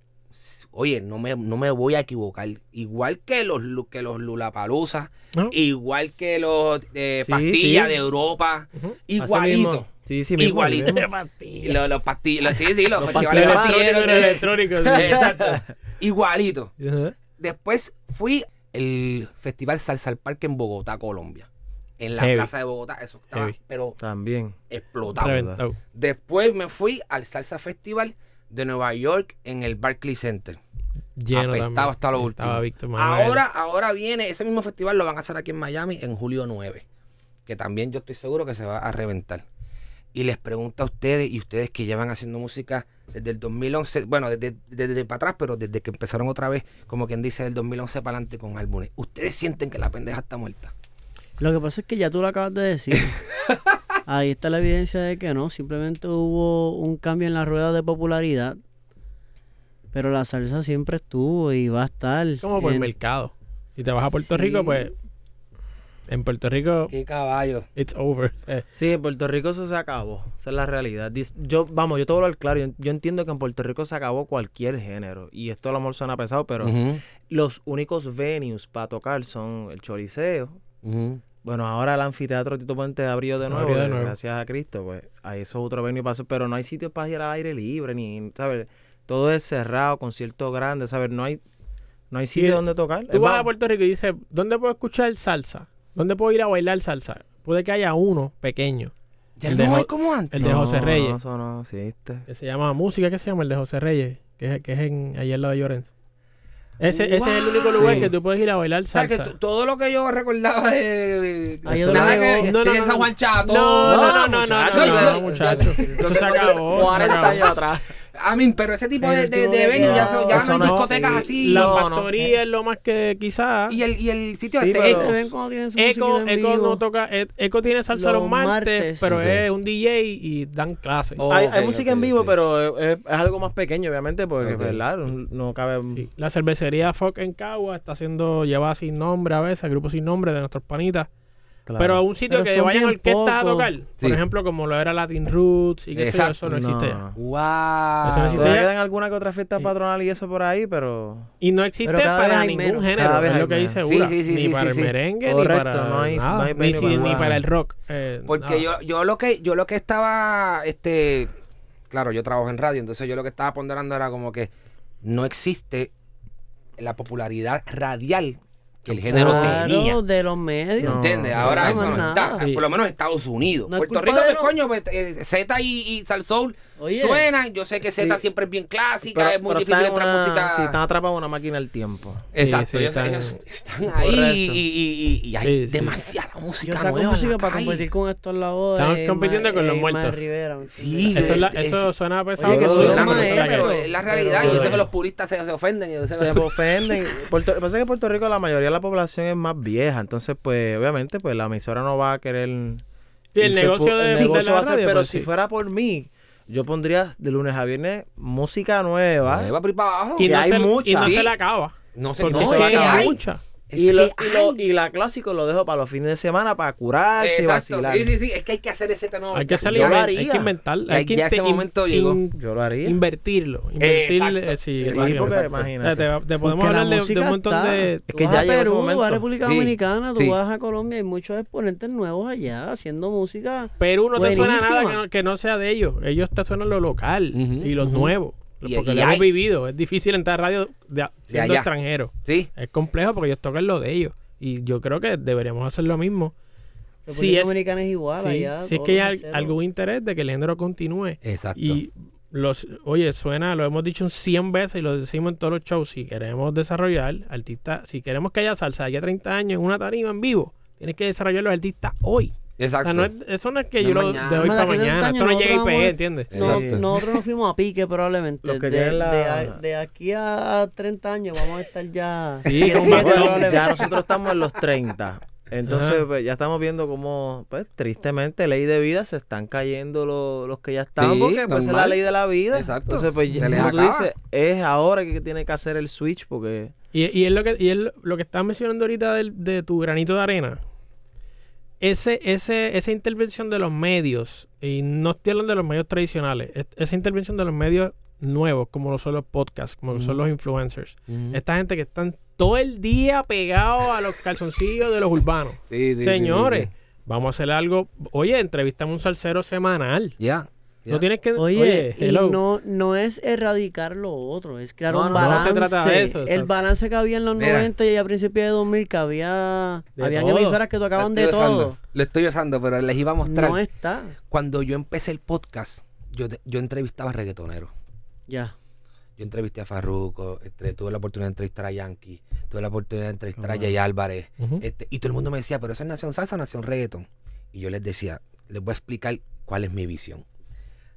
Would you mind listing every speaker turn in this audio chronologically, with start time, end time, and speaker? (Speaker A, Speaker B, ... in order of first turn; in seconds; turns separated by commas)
Speaker A: 0.3-11.0, Speaker B: 7.2-8.0, Speaker B: 9.2-11.0, Speaker C: 10.8-11.8, Speaker A: 11.6-16.7, Speaker B: 12.9-14.2, Speaker C: 13.0-15.3, Speaker B: 14.9-15.7, Speaker C: 16.8-17.1, Speaker A: 17.4-21.5, Speaker A: 22.0-24.0, Speaker C: 22.2-22.5, Speaker B: 24.0-24.6, Speaker A: 24.7-30.6, Speaker C: 25.2-25.8, Speaker B: 25.3-25.6, Speaker C: 31.2-33.4, Speaker A: 31.3-36.8, Speaker A: 37.5-39.4, Speaker A: 40.1-50.7, Speaker D: 51.4-53.1, Speaker D: 54.1-58.6, Speaker D: 59.9-62.9, Speaker C: 62.4-64.9, Speaker C: 66.1-66.9, Speaker A: 66.9-67.7, Speaker C: 67.8-68.6, Speaker B: 68.7-80.6, Speaker A: 76.6-77.0, Speaker A: 80.8-81.2, Speaker B: 81.4-91.4, Speaker C: 83.5-84.1, Speaker B: 92.1-93.5, Speaker C: 92.3-98.9, Speaker A: 99.4-100.5, Speaker C: 99.5-101.2, Speaker B: 100.4-102.2, Speaker C: 102.3-105.9, Speaker C: 106.8-109.3, Speaker A: 106.9-108.1, Speaker B: 107.7-108.1, Speaker A: 108.9-117.4, Speaker D: 111.7-112.5, Speaker B: 111.7-112.3, Speaker C: 112.4-117.5, Speaker B: 113.8-117.9, Speaker A: 118.1-121.8, Speaker D: 119.0-120.5, Speaker B: 119.7-122.3, Speaker C: 120.4-123.8, Speaker A: 123.7-125.3, Speaker B: 124.5-125.2, Speaker D: 124.9-126.8, Speaker C: 125.8-131.2, Speaker D: 127.9-129.1, Speaker A: 129.1-129.4, Speaker A: 131.2-132.4, Speaker B: 131.2-136.1, Speaker A: 134.4-134.8, Speaker C: 135.9-141.1, Speaker B: 141.7-142.0, Speaker C: 141.8-147.0, Speaker D: 142.3-143.7, Speaker A: 145.9-146.5, Speaker B: 146.5-147.2, Speaker A: 147.1-148.6, Speaker C: 148.0-148.7, Speaker B: 148.3-151.3, Speaker C: 151.4-158.7, Speaker D: 151.8-152.9, Speaker B: 152.9-153.8, Speaker A: 153.8-154.9, Speaker B: 155.2-157.4, Speaker A: 158.3-161.3, Speaker A: 161.9-164.5, Speaker A: 165.0-165.9, Speaker A: 166.8-170.0, Speaker B: 168.9-169.7, Speaker D: 169.1-172.4, Speaker B: 170.8-172.1, Speaker A: 170.8-180.8, Speaker C: 172.4-172.7, Speaker D: 173.7-174.5, Speaker D: 176.8-177.3, Speaker B: 177.8-178.2, Speaker B: 179.0-182.2, Speaker A: 182.3-187.8, Speaker C: 182.3-183.4, Speaker B: 183.9-184.6, Speaker C: 185.4-186.0, Speaker D: 186.6-191.4, Speaker C: 188.8-190.2, Speaker A: 190.7-191.9, Speaker C: 191.1-193.9, Speaker D: 192.4-194.8, Speaker B: 192.4-193.4, Speaker A: 192.6-196.6, Speaker B: 194.2-194.8, Speaker C: 194.4-194.7, Speaker B: 196.1-202.8, Speaker C: 203.3-205.3, Speaker B: 203.4-209.5, Speaker A: 209.2-210.3, Speaker C: 210.2-213.4, Speaker B: 210.2-211.2, Speaker A: 211.0-211.3, Speaker A: 211.9-213.2, Speaker B: 212.2-213.1, Speaker A: 213.7-214.6, Speaker B: 213.7-218.1, Speaker A: 217.2-220.1, Speaker C: 219.3-228.1, Speaker B: 219.6-220.5, Speaker A: 220.9-222.2, Speaker B: 222.3-223.0, Speaker A: 223.8-225.5, Speaker B: 224.8-226.1, Speaker D: 226.4-235.0, Speaker B: 228.1-229.2, Speaker A: 229.4-230.4, Speaker C: 233.8-246.3, Speaker A: 237.3-239.3, Speaker A: 241.3-241.7, Speaker A: 242.2-242.5, Speaker D: 247.1-249.5, Speaker C: 247.1-247.5, Speaker C: 248.2-266.4, Speaker A: 251.2-251.8, Speaker A: 262.6-263.1, Speaker A: 263.8-264.7, Speaker D: 264.4-273.9, Speaker A: 266.3-266.8, Speaker B: 266.4-266.8, Speaker B: 268.4-269.6, Speaker C: 272.4-273.6, Speaker B: 272.7-286.7, Speaker A: 272.9-273.4, Speaker C: 275.7-276.0, Speaker A: 281.0-284.1, Speaker C: 283.4-283.7, Speaker C: 286.9-290.6, Speaker C: 291.8-310.1, Speaker A: 299.9-300.2, Speaker A: 301.1-301.4, Speaker A: 305.7-306.7, Speaker A: 310.2-311.0, Speaker C: 310.9-312.4, Speaker D: 311.4-321.8, Speaker A: 314.9-315.5, Speaker C: 315.1-316.5, Speaker A: 317.4-317.7, Speaker C: 320.0-320.6, Speaker A: 321.0-323.6, Speaker D: 323.2-324.1, Speaker A: 324.3-327.7, Speaker D: 328.3-328.5, Speaker A: 329.2-340.2, Speaker B: 333.4-333.7